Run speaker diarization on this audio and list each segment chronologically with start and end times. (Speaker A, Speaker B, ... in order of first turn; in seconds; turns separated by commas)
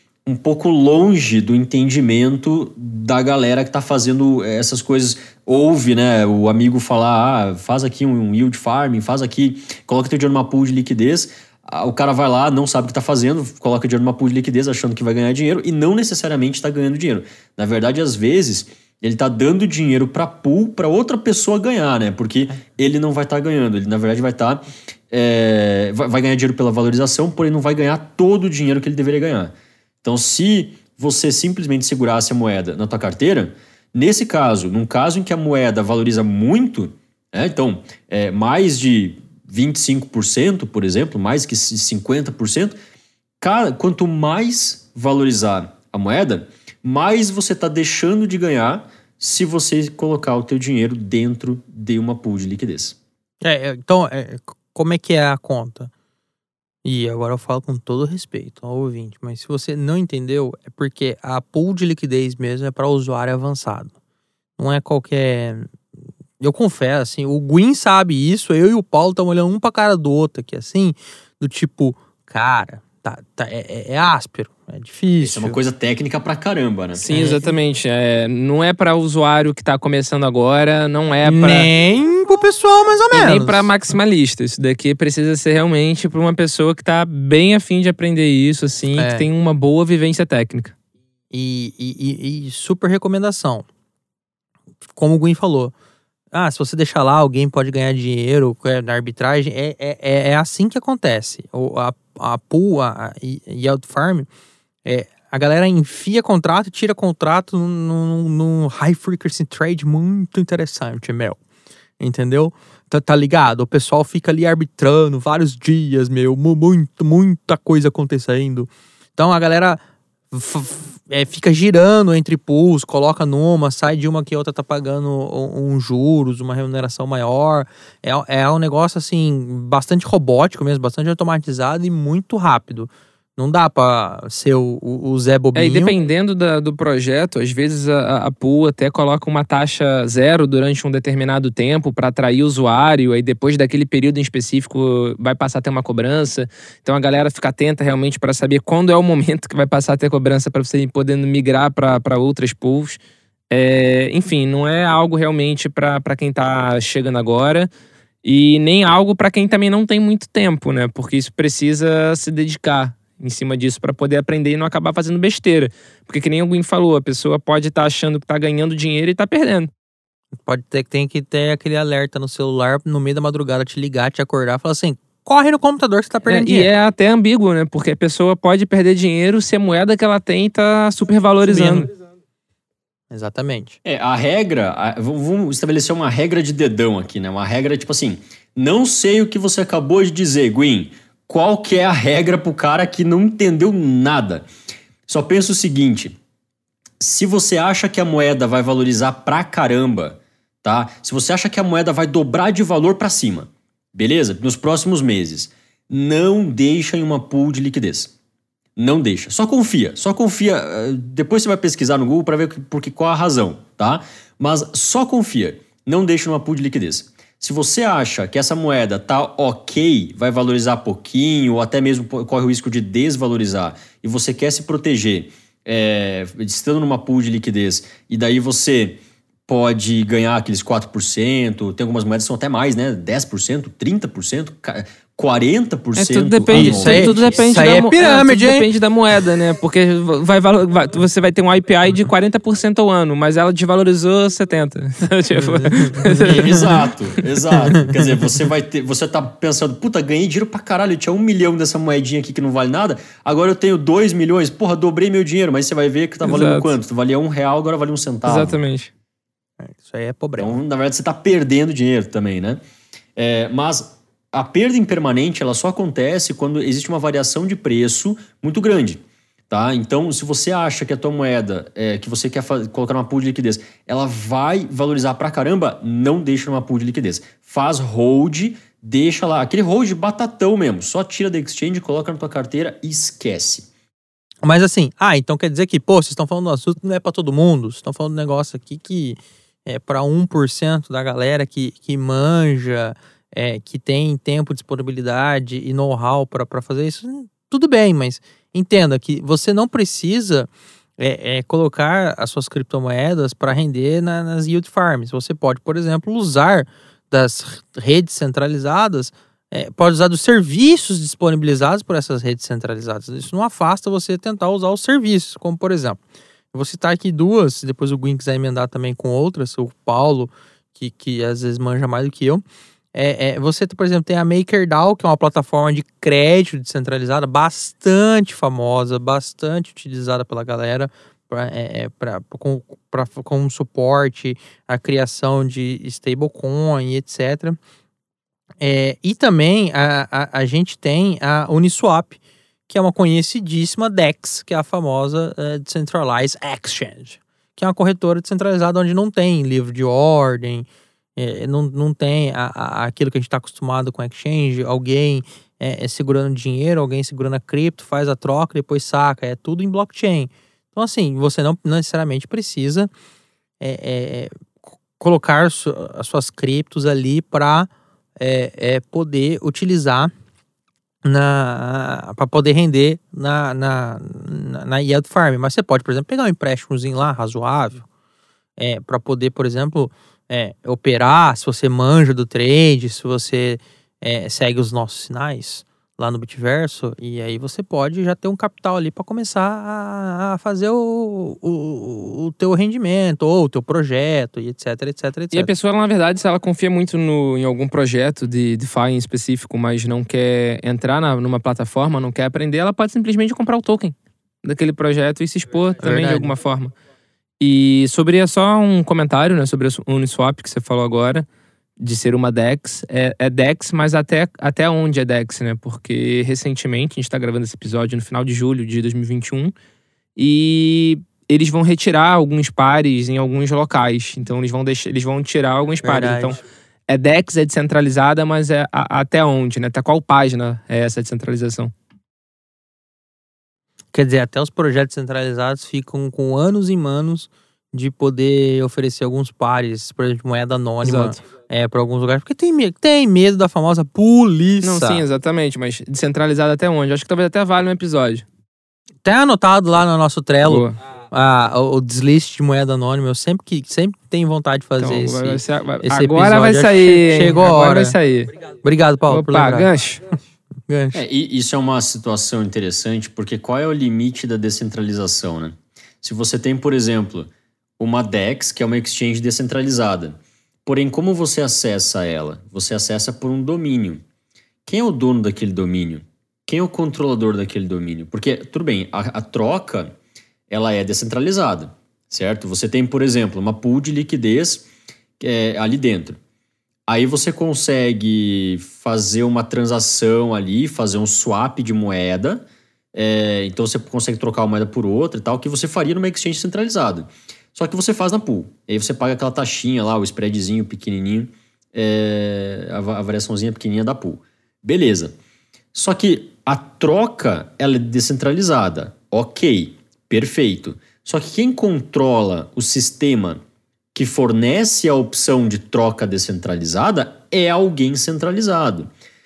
Speaker A: 0.2-42.8, Speaker A: 43.4-53.0, Speaker B: 53.4-55.9, Speaker B: 56.8-63.9, Speaker B: 64.6-65.7, Speaker B: 66.4-75.6, Speaker A: 75.2-77.2, Speaker B: 77.0-77.5, Speaker C: 77.0-81.7, Speaker B: 81.2-83.7, Speaker C: 83.1-90.7, Speaker B: 89.0-89.2, Speaker B: 91.3-93.7, Speaker B: 94.9-95.7, Speaker B: 96.3-104.3, Speaker B: 104.8-111.4, Speaker B: 112.0-135.9, Speaker C: 135.5-157.7, Speaker C: 158.2-169.7, Speaker B: 170.4-176.7, Speaker C: 176.2-181.9, Speaker B: 181.5-181.9, Speaker B: 183.1-183.8, Speaker A: 183.8-194.5, Speaker A: 195.1-196.2, Speaker A: 197.0-208.1, Speaker A: 208.8-237.3, Speaker C: 235.9-246.8, Speaker B: 236.5-238.7, Speaker B: 245.4-246.6, Speaker A: 246.2-258.6, Speaker C: 256.2-256.7, Speaker C: 258.2-258.9, Speaker B: 259.6-260.6, Speaker A: 260.4-262.6, Speaker A: 263.1-283.7, Speaker B: 284.4-316.0, Speaker B: 316.5-322.4, Speaker B: 322.9-337.6, Speaker B: 338.6-362.9, Speaker B: 363.6-364.3, Speaker B: 365.0-370.1, Speaker B: 371.0-377.9, Speaker B: 378.6-395.5, Speaker C: 395.3-406.7, Speaker B: 405.8-406.3, Speaker C: 407.4-411.2, Speaker C: 411.8-419.5, Speaker C: 420.1-431.7, Speaker B: 425.8-426.4, Speaker B: 433.9-445.0, Speaker C: 440.8-441.2, Speaker C: 444.6-448.2, Speaker B: 449.0-457.9, Speaker C: 450.5-450.8, Speaker C: 454.8-458.3, Speaker B: 458.6-459.7, Speaker C: 459.1-460.0, Speaker B: 460.7-461.0, Speaker A: 460.9-474.0, Speaker A: 474.6-479.9, Speaker A: 480.5-484.7, Speaker A: 485.2-486.2, Speaker A: 486.9-505.1, Speaker A: 505.7-513.4, Speaker A: 513.9-518.9